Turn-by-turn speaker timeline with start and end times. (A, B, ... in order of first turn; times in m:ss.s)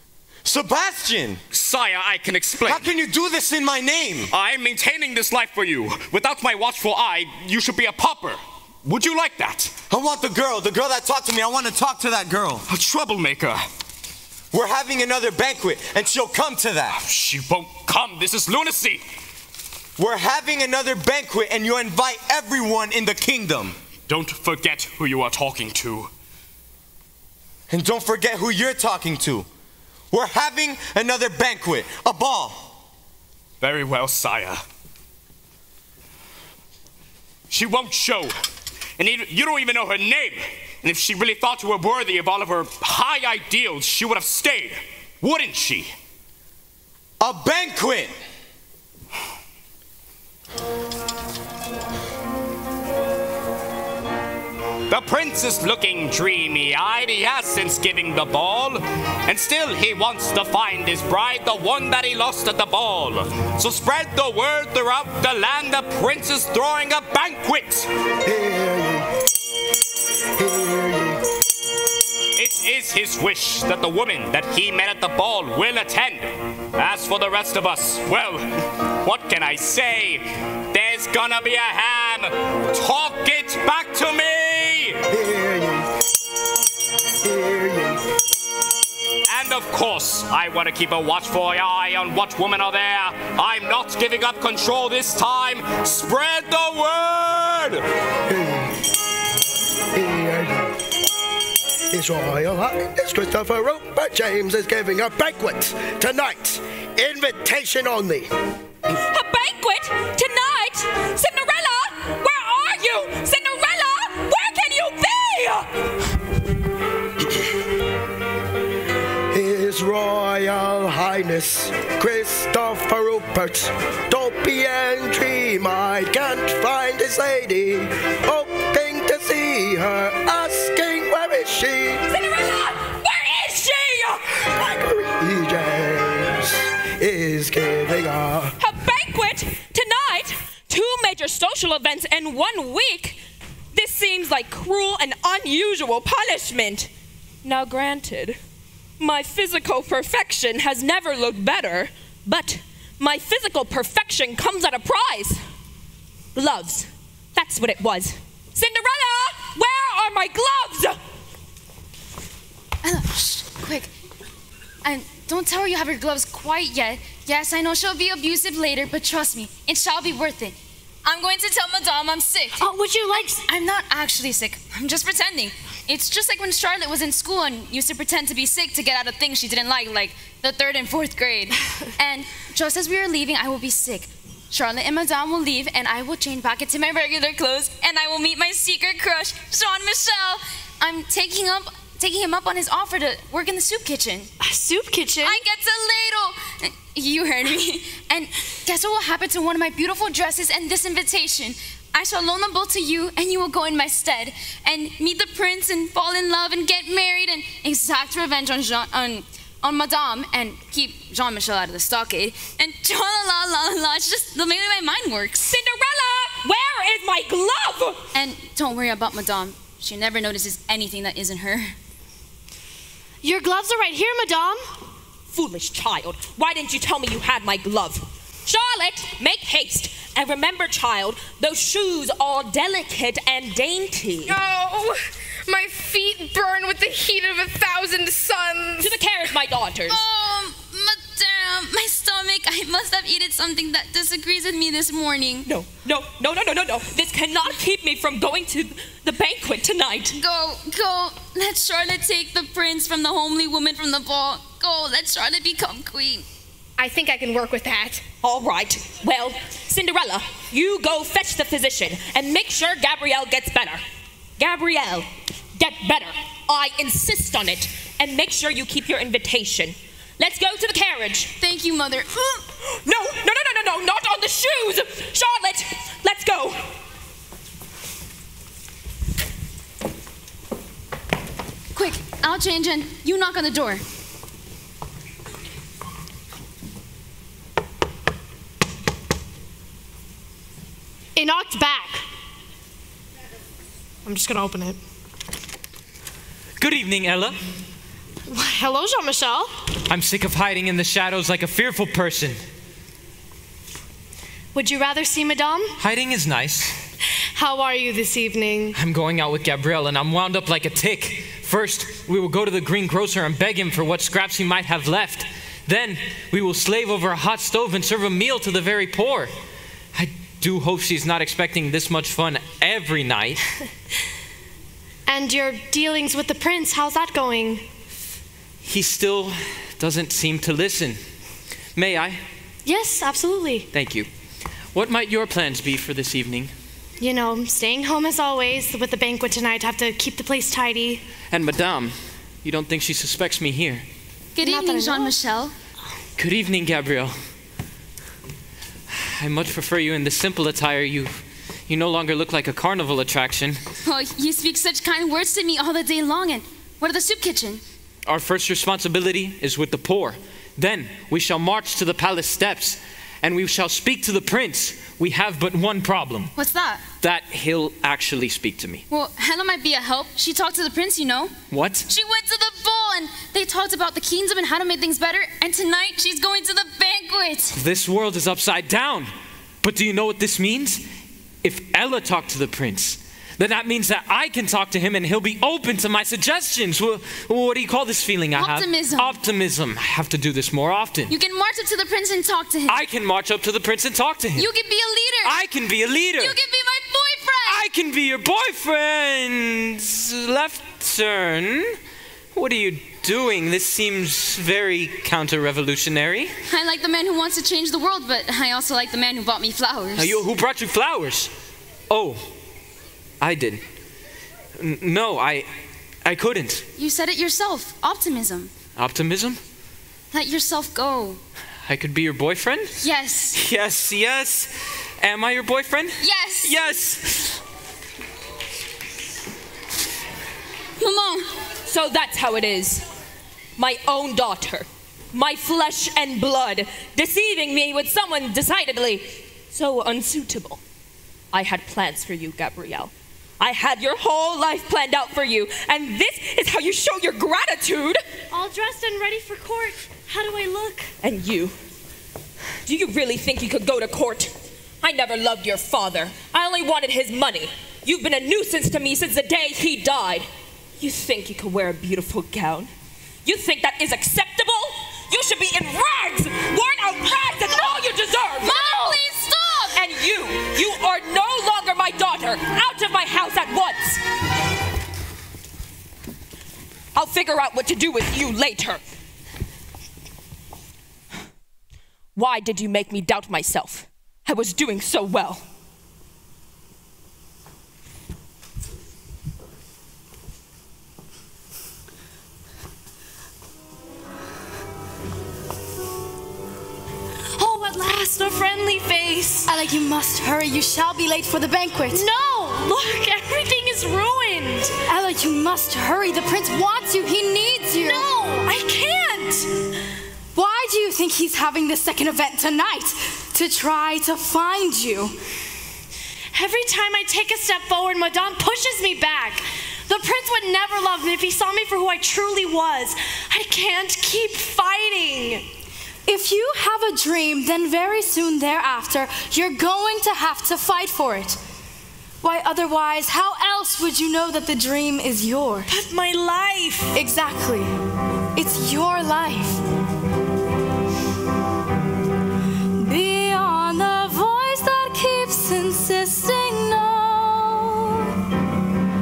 0:00.4-0:01.4 A
0:01.5-0:02.9 B
0:02.7-0:04.3 A
0:04.3-0:09.7 B
0:09.9-0:12.6 A
0:12.7-0:13.6 B
0:14.5-0:17.0 A
0:17.0-0:19.0 B
0:20.0-0:23.8 A
0:24.1-0:26.1 B
0:27.7-0:29.5 A
0:30.1-0:32.7 A
0:33.6-0:34.6 B
0:37.5-0:38.3 B
0:39.0-0:45.9 B
0:47.2-0:48.1 A
0:54.9-1:07.9 B
1:08.2-1:09.1 C
1:10.4-1:11.2 C
1:12.4-1:18.5 B
1:19.0-1:25.0 B
1:25.1-1:25.9 C
1:27.2-1:28.0 C
1:29.3-1:37.8 B
1:38.3-1:38.7 C
1:39.9-1:40.7 C
1:41.9-1:48.3 C
1:49.1-1:55.7 D
1:59.3-2:12.0 C
2:12.1-2:14.8 D
2:14.8-2:18.5 C
2:18.6-2:23.2 D
2:23.7-2:26.9 D
2:27.4-2:28.4 D
2:29.0-2:35.4 D
2:36.4-2:41.0 D
2:42.8-2:43.9 E
2:44.8-3:14.3 E
2:52.6-2:53.4 F
3:14.4-3:15.4 F
3:15.2-3:35.6 E
3:35.4-3:38.0 D
3:38.1-3:41.8 E
3:43.2-3:44.7 F
3:45.3-3:54.4 D
3:54.3-3:59.0 G
3:58.8-4:00.0 D
3:59.9-4:05.5 E
4:05.4-4:10.2 D
4:10.2-4:16.3 E
4:16.8-4:18.0 G
4:18.2-4:23.8 D
4:24.4-4:31.3 D
4:31.4-4:32.4 E
4:32.8-4:36.6 D
4:41.8-4:43.8 E
4:51.2-4:52.1 F
4:54.0-4:54.8 F
4:56.6-4:57.4 H
4:58.3-4:59.5 F
4:59.9-5:02.4 H
5:04.5-5:05.8 F
5:05.8-5:06.7 H
5:07.4-5:08.8 F
5:08.7-5:19.3 H
5:19.9-5:23.4 H
5:25.1-5:27.6 F
5:28.6-5:31.0 H
5:31.8-5:32.2 H
5:32.6-5:33.7 F
5:33.7-5:34.1 H
5:34.7-5:36.5 H
5:37.0-5:41.0 F
5:41.3-5:43.9 H
5:44.4-5:45.6 E
5:44.4-5:45.1 F
5:46.2-5:47.2 H
5:48.9-5:53.6 H
5:53.8-5:57.6 E
5:58.1-6:06.3 H
6:06.4-6:06.8 E
6:07.0-6:08.8 H
6:08.9-6:11.3 E
6:11.5-6:11.9 H
6:11.9-6:17.6 E
6:17.5-6:19.1 H
6:19.6-6:20.8 H
6:21.4-6:31.1 H
6:28.4-6:29.2 E
6:31.1-6:32.8 E
6:32.7-6:34.5 H
6:34.4-6:35.4 E
6:35.2-6:36.4 H
6:36.2-6:37.6 E
6:37.4-6:41.8 H
6:42.3-6:46.3 H
6:46.5-6:50.2 E
6:50.0-6:51.3 H
6:51.9-6:52.2 H
6:53.2-6:53.6 H
6:54.6-6:55.5 H
6:56.0-6:56.6 H
6:56.8-6:58.5 E
6:58.8-6:59.4 H
7:00.1-7:01.2 E
7:01.6-7:02.7 H
7:02.8-7:03.4 E
7:03.3-7:07.4 H
7:06.0-7:06.6 E
7:10.8-7:11.3 E
7:11.7-7:12.8 D
7:13.6-7:20.6 D
7:21.3-7:28.0 D
7:28.3-7:30.9 F
7:31.0-7:31.6 D
7:32.6-7:40.3 D
7:40.8-7:42.7 D
7:43.2-7:49.0 D
7:48.4-7:49.9 E
7:49.7-7:54.0 D
7:57.0-7:58.8 D
8:02.2-8:05.4 D
8:17.4-8:19.5 F
8:19.5-8:22.1 I
8:21.9-8:24.8 F
8:24.9-8:28.1 I
8:27.8-8:29.5 F
8:30.4-8:35.1 I
8:36.3-8:45.5 F
8:46.1-8:51.4 I
8:52.2-8:55.7 I
8:55.7-8:57.0 F
8:57.0-8:57.7 I
8:58.4-8:59.6 I
9:02.8-9:08.1 I